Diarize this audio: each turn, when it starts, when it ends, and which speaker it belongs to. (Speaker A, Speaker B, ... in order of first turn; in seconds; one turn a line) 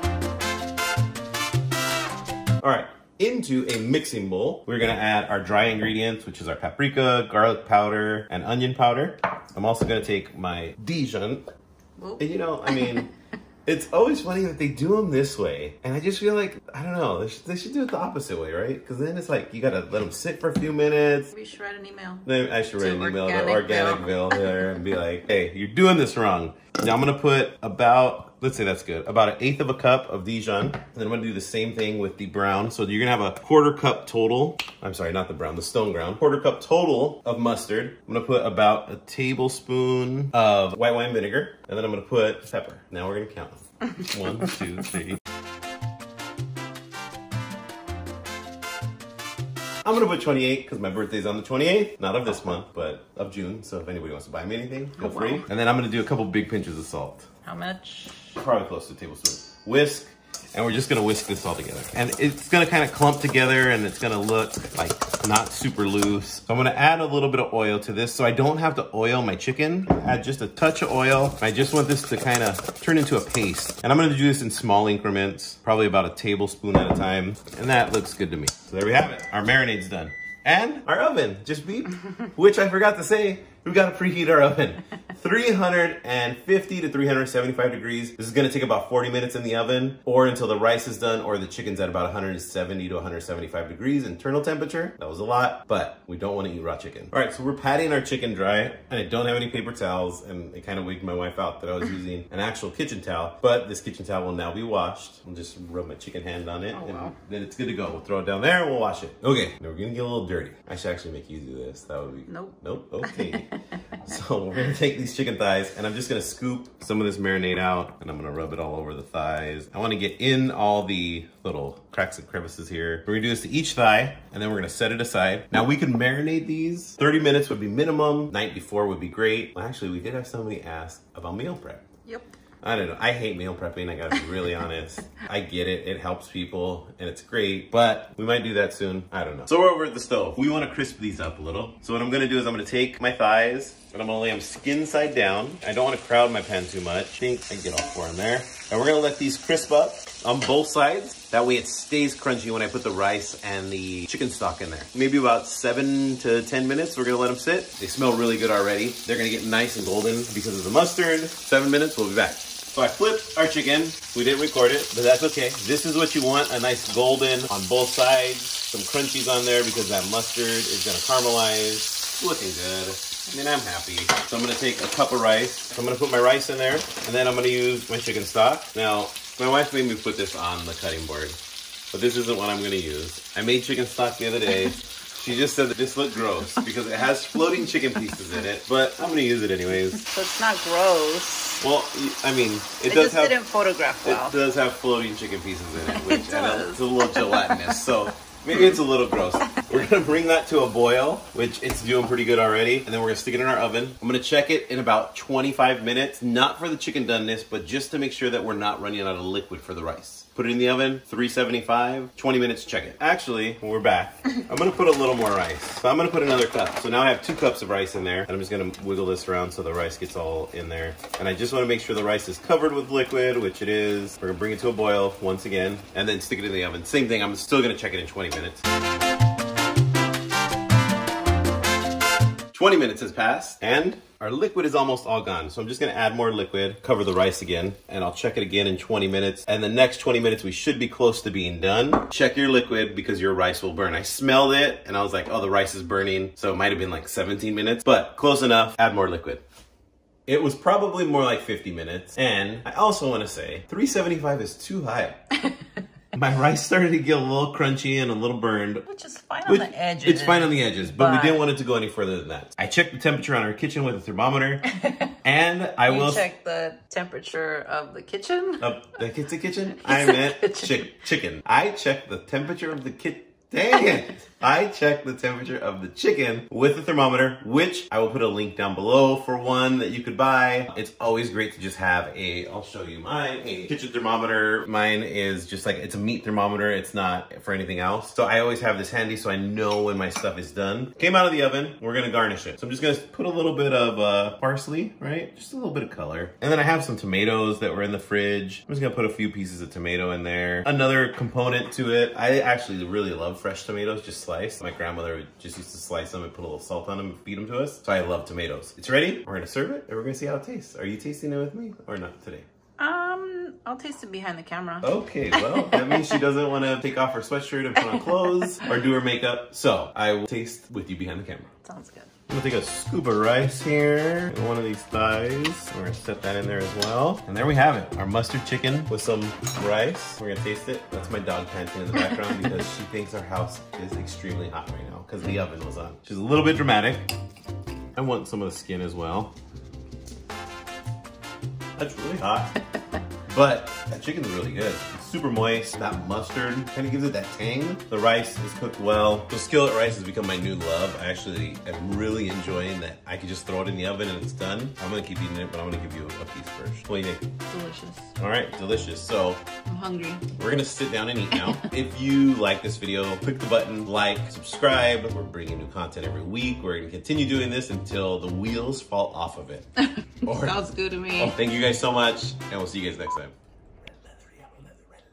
Speaker A: 2.6-11.4
Speaker B: 12.0-13.1
Speaker A: 12.2-13.1
Speaker A: 13.7-21.3
Speaker B: 21.3-24.4
Speaker A: 22.2-45.2
Speaker A: 49.8-57.3
Speaker B: 55.0-55.5
Speaker B: 57.4-58.4
Speaker A: 58.4-113.5
Speaker B: 106.7-107.1
Speaker B: 112.3-113.5
Speaker A: 114.0-131.8
Speaker B: 132.1-132.3
Speaker A: 132.6-181.4
Speaker A: 181.9-190.0
Speaker B: 189.8-191.6
Speaker A: 191.6-193.4
Speaker B: 192.9-194.3
Speaker A: 194.0-228.6
Speaker B: 195.8-197.7
Speaker A: 232.5-249.4
Speaker A: 250.3-255.2
Speaker A: 256.1-258.8
Speaker B: 258.8-261.4
Speaker A: 259.4-264.7
Speaker B: 264.8-265.1
Speaker A: 265.2-266.3
Speaker B: 265.9-268.6
Speaker A: 268.6-312.4
Speaker B: 269.8-270.9
Speaker B: 312.8-316.2
Speaker A: 314.8-321.5
Speaker B: 321.6-322.1
Speaker A: 322.3-337.1
Speaker A: 337.9-339.3
Speaker A: 341.8-342.6
Speaker A: 343.3-357.2
Speaker B: 357.5-358.1
Speaker A: 358.2-359.4
Speaker B: 359.6-360.2
Speaker A: 360.3-369.7
Speaker B: 361.3-361.7
Speaker B: 370.0-371.4
Speaker A: 370.2-370.6
Speaker A: 371.1-373.3
Speaker A: 374.4-374.8